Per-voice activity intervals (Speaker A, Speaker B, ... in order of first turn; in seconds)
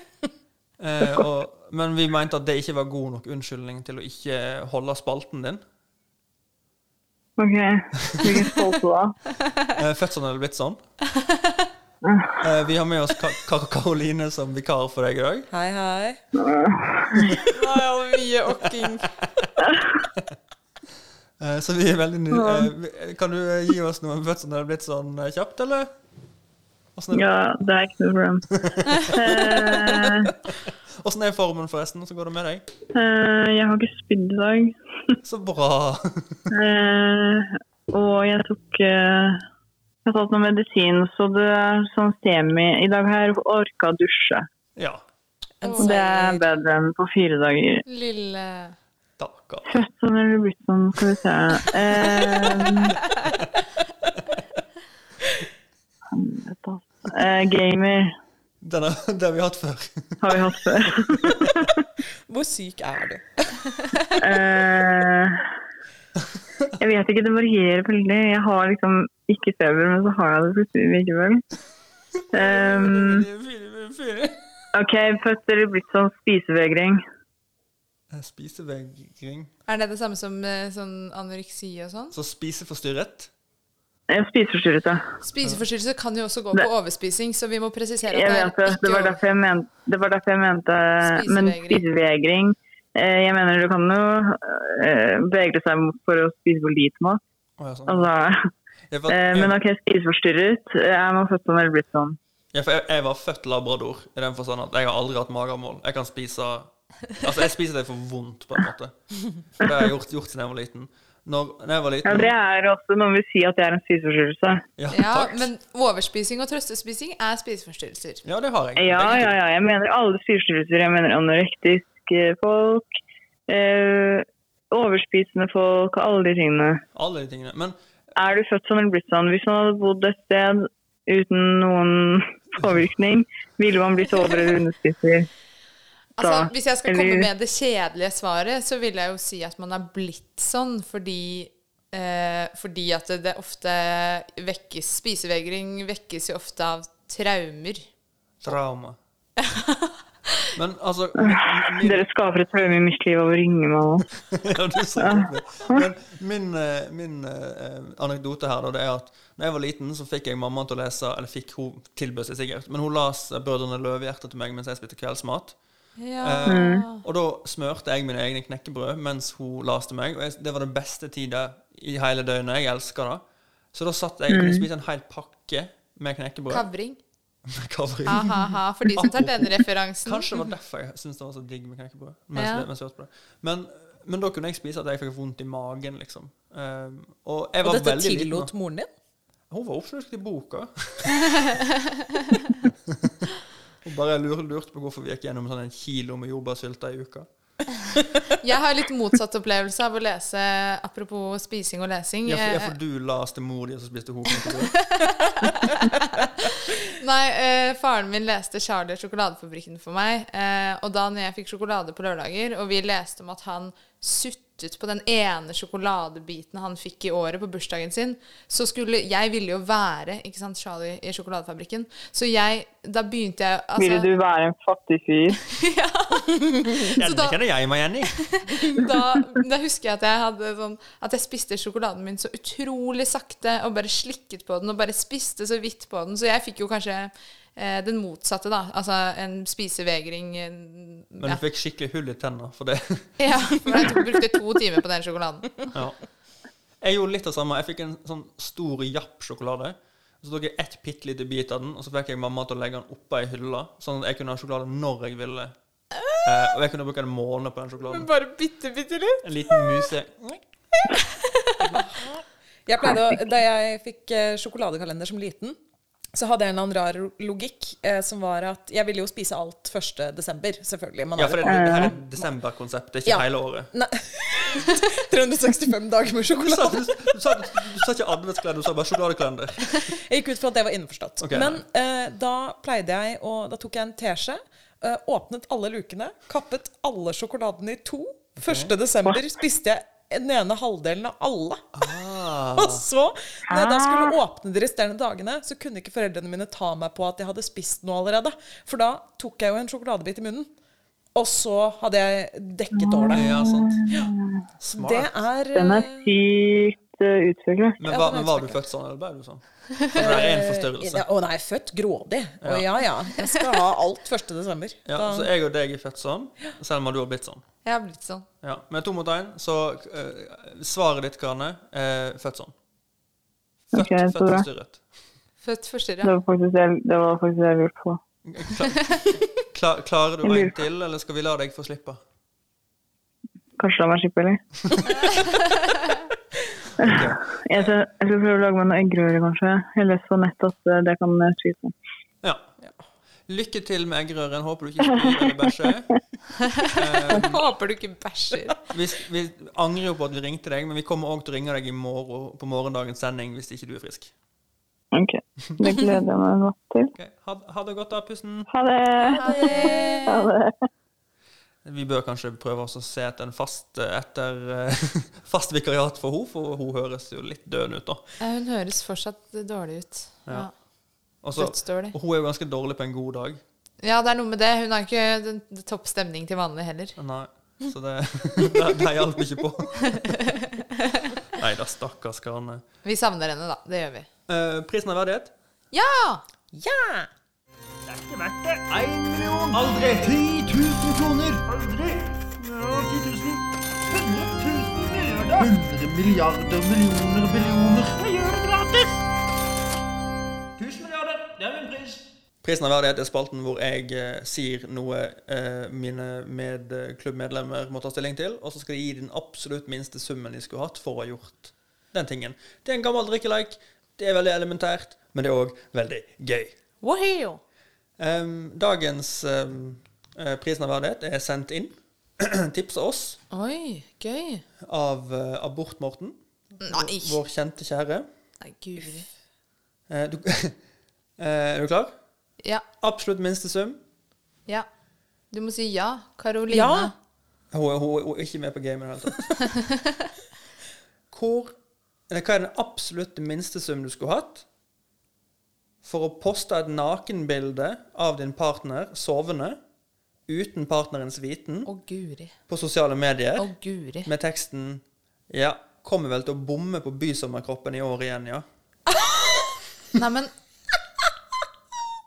Speaker A: 0.8-5.6, 8.0-8.3, 9.8-10.8, 12.4-15.5, 21.4-25.9, 27.0-27.3, 28.6-30.1, 31.0-32.6, 35.2-36.5, 44.8-45.0, 49.2-49.7, 58.6-61.6, 72.2-74.4, 78.1-79.5, 82.1-83.3, 97.6-98.1, 98.9-99.6, 102.5-112.3, 114.8-115.5, 118.2-119.4, 126.9-127.8, 148.4-149.0, 150.6-152.1, 154.3-165.6, 166.2-173.2, 173.7-176.7, 177.5-188.5, 189.5-191.4, 192.9-193.1, 193.8-197.3, 202.2-204.8, 226.9-228.2, 241.2-243.1, 245.7-246.0, 246.8-255.5, 256.2-258.1, 259.2-260.4, 271.1-273.7, 276.4-279.9, 281.2-281.6, 288.4-288.7, 291.8-292.9, 303.1-303.8, 304.6-305.1, 307.8-311.1, 312.4-312.7, 314.9-317.4, 318.4-322.5, 323.7-324.8, 328.3-332.0, 336.8-337.7, 342.2-342.5, 343.3-345.9, 346.7-347.4, 348.7-354.1, 357.0-358.5, 361.6-368.0, 371.2-373.4, 377.0-380.1, 381.4-382.6, 384.3-385.3, 387.9-399.1, 400.6-416.6, 418.0-423.2, 424.6-428.1, 429.9-430.6, 431.2-431.9, 432.8-433.8, 437.5-439.3, 441.1-441.6, 442.1-444.5, 445.8-449.6, 450.3-451.7, 452.5-453.5, 454.0-458.4
Speaker B: 7.4-9.2, 12.0-12.5, 16.3-17.4, 19.6-19.9, 22.3-22.7, 27.1-28.5, 29.0-30.3, 32.9-35.1, 36.5-39.4, 40.0-44.5, 45.8-47.8, 49.7-53.0, 56.1-58.1, 60.2-61.7, 64.2-65.4, 66.8-71.4, 72.3-73.3, 74.8-77.0, 84.1-85.0, 88.1-97.2, 97.9-98.5, 99.1-102.2, 112.0-114.6, 118.8-122.9, 123.5-126.8, 128.2-135.3, 136.2-137.3, 151.2-154.1, 155.0-155.9, 166.5-166.8, 174.3-174.7, 223.8-225.4, 271.5-271.9, 293.5-294.1, 302.7-304.4, 305.5-307.8, 323.7-324.5, 326.0-328.0, 330.2-330.6, 333.6-334.4, 336.8-341.8, 344.9-345.1, 354.9-356.9, 358.5-360.5
Speaker C: 15.5-16.2, 45.6-46.4, 62.3-64.2, 187.6-188.9, 261.8-265.6, 266.1-272.0, 273.1-277.1, 279.8-291.9, 292.6-300.5, 301.1-303.3, 304.7-306.1, 307.9-308.6, 309.9-315.3, 359.0-360.3, 386.5-387.1, 436.5-436.9
Speaker D: 17.5-19.0, 45.6-45.9, 47.9-48.8, 79.7-82.1, 85.2-89.2, 91.0-91.8, 114.9-118.2, 136.2-147.9, 149.4-149.9, 166.0-167.0, 176.5-177.0, 178.1-180.3, 182.4-182.7, 191.4-191.6, 198.4-202.7, 204.9-224.1, 225.3-227.4, 228.3-241.4, 243.2-245.7, 257.9-259.2, 317.6-318.3, 325.4-326.1, 347.1-348.6, 359.2-360.2, 368.2-370.5, 371.4-371.9, 373.8-377.0, 380.0-380.4, 382.8-384.1, 385.7-386.2, 416.8-417.4, 423.3-424.4, 426.6-427.2, 428.4-429.1, 435.3-436.9, 451.6-452.3, 453.4-454.1, 460.0-460.3